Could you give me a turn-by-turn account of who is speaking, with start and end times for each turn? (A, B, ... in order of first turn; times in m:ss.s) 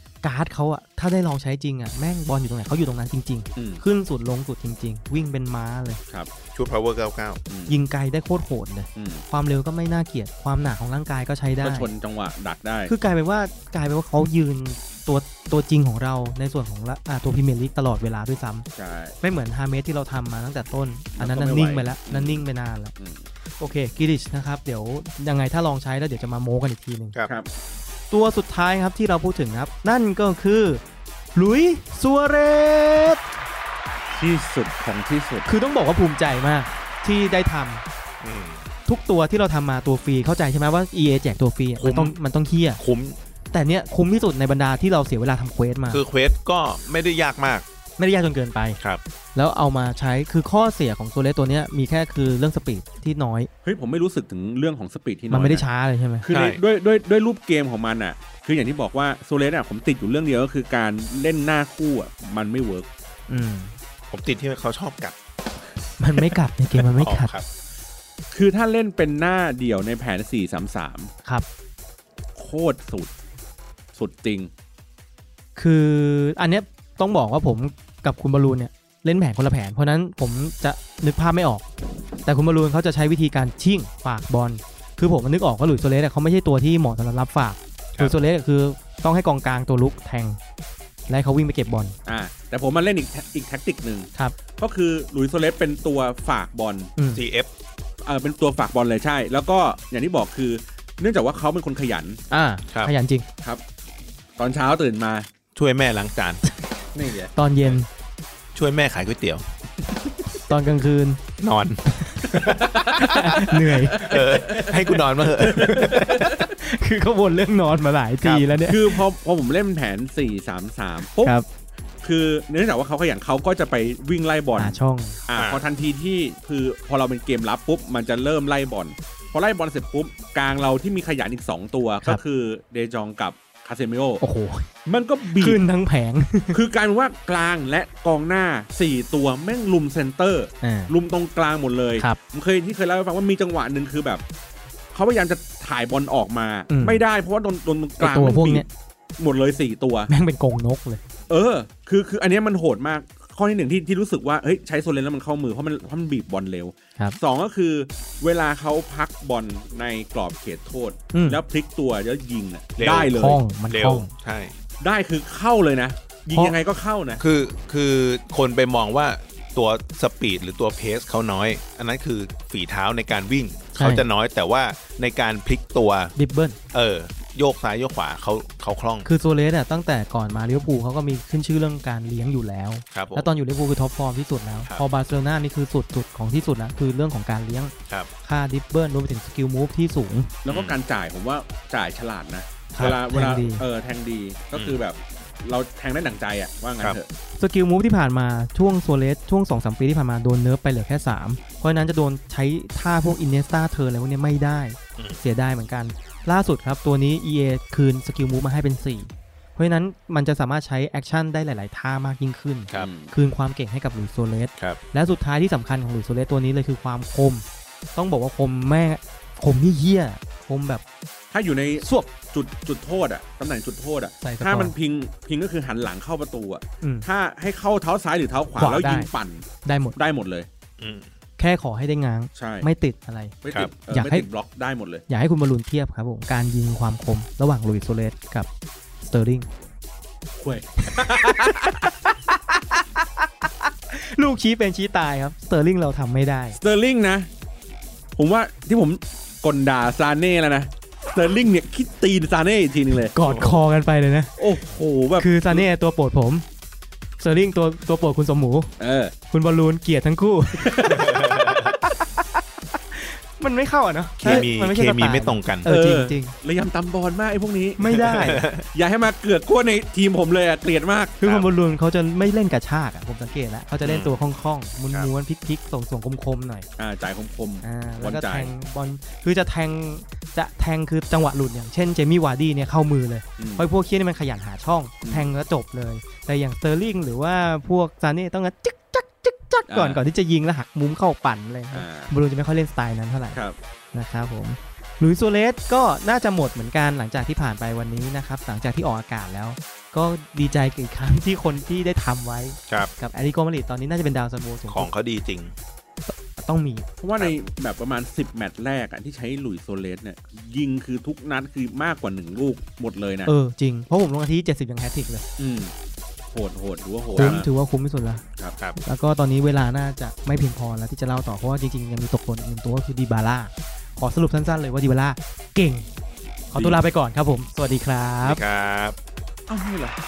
0:00.2-0:06.0 A
0:03.6-0:03.8 B
0:06.5-0:07.4 C
0:07.5-0:07.8 B
0:07.7-0:11.9 A
0:09.0-0:09.2 B
0:11.6-0:12.9 B
0:12.9-0:18.6 A
0:18.8-0:19.2 B
0:19.2-0:22.9 A
0:21.2-0:22.4 B
0:23.0-0:23.2 B
0:23.6-0:27.2 A
0:28.1-0:30.8 A
0:31.4-0:33.2 A
0:34.1-0:35.5 B
0:35.5-0:37.8 A
0:38.2-0:38.7 C
0:38.9-0:42.8 A
0:41.8-0:42.2 C
0:42.8-0:43.2 C
0:43.5-0:46.0 A
0:45.9-0:47.6 C
0:48.0-0:48.8 A
0:49.4-0:53.5 A
0:53.6-0:55.7 B
0:55.3-0:56.2 A
0:56.2-1:02.9 B
0:56.3-0:56.6 C
1:03.3-1:03.8 A
1:04.1-1:05.2 C
1:06.0-1:07.3 A
1:06.8-1:07.5 C
1:08.3-1:11.1 B
1:12.4-1:13.1 B
1:14.0-1:14.5 B
1:15.6-1:21.7 A
1:22.2-1:30.4 A
1:31.1-1:32.0 A
1:32.1-1:36.9 B
1:37.0-1:37.2 A
1:37.1-1:37.5 C
1:38.0-1:42.2 B
1:42.3-1:43.3 A
1:44.4-1:45.3 B
1:45.6-1:46.4 C
1:47.0-1:47.3 B
1:47.4-1:47.9 A
1:48.6-1:49.5 C
1:50.5-1:51.2 A
1:51.4-1:53.4 C
1:51.9-1:52.4 A
1:52.4-1:56.5 B
1:52.9-1:54.4 A
1:54.0-1:56.3 C
1:55.5-1:59.0 A
1:58.2-1:58.5 C
1:58.7-2:01.4 B
2:01.2-2:01.5 A
2:02.0-2:14.2 B
2:04.6-2:05.2 A
2:05.4-2:05.7 C
2:14.2-2:14.7 A
2:14.9-2:15.6 B
2:15.2-2:16.6 A
2:16.5-2:24.2 B
2:20.6-2:20.9 A
2:24.9-2:28.7 B
2:26.7-2:27.0 A
2:28.0-2:28.7 A
2:29.2-2:30.1 B
2:30.1-2:31.0 A
2:31.3-2:43.4 B
2:41.1-2:41.4 A
2:42.8-2:44.6 C
2:43.1-2:44.1 A
2:44.8-2:47.2 B
2:47.2-2:56.2 C
2:53.8-2:54.1 A
2:56.2-2:56.6 A
2:56.7-2:59.1 C
2:59.1-3:07.7 A
3:02.9-3:03.3 C
3:08.2-3:10.4 A
3:10.4-3:17.1 B
3:10.5-3:10.8 C
3:12.7-3:13.6 A
3:17.4-3:37.4 A
3:32.7-3:33.1 B
3:38.0-3:40.8 A
3:41.3-3:50.5 B
3:41.8-3:42.1 A
3:44.2-3:44.8 A
3:46.8-3:47.1 A
3:48.6-3:49.1 A
3:49.6-3:50.0 A
3:50.8-3:51.1 C
3:51.4-3:53.4 A
3:52.4-3:52.7 B
3:53.4-3:55.0 B
3:53.9-3:54.3 A
3:55.1-3:58.5 A
3:59.0-3:59.5 A
4:00.4-4:01.9 B
4:00.8-4:03.3 A
4:03.9-4:06.6 A
4:06.6-4:07.3 B
4:08.1-4:13.2 B
4:13.1-4:14.4 A
4:14.4-4:15.7 B
4:15.2-4:16.4 A
4:17.2-4:18.7 A
4:18.8-4:19.1 B
4:19.3-4:26.3 A
4:20.6-4:21.2 B
4:20.9-4:21.7 C
4:24.2-4:25.7 C
4:25.6-4:31.2 B
4:27.8-4:28.4 A
4:27.9-4:28.7 C
4:31.2-4:36.7 A
4:33.8-4:34.2 C
4:36.8-4:38.5 B
4:37.6-4:53.4 A
4:43.4-4:43.7 B
4:45.0-4:45.3 B
4:49.7-4:50.0 B
4:51.7-4:52.1 B
4:53.9-5:04.9 A
5:04.7-5:05.5 C
5:06.1-5:06.9 A
5:07.0-5:13.3 B
5:13.3-5:15.3 A
5:15.4-5:15.7 B
5:16.3-5:17.5 B
5:17.1-5:18.2 A
5:17.2-5:17.5 C
5:18.8-5:25.9 A
5:26.5-5:28.4 A
5:26.5-5:26.8 B
5:28.2-5:29.0 C
5:29.5-5:30.0 B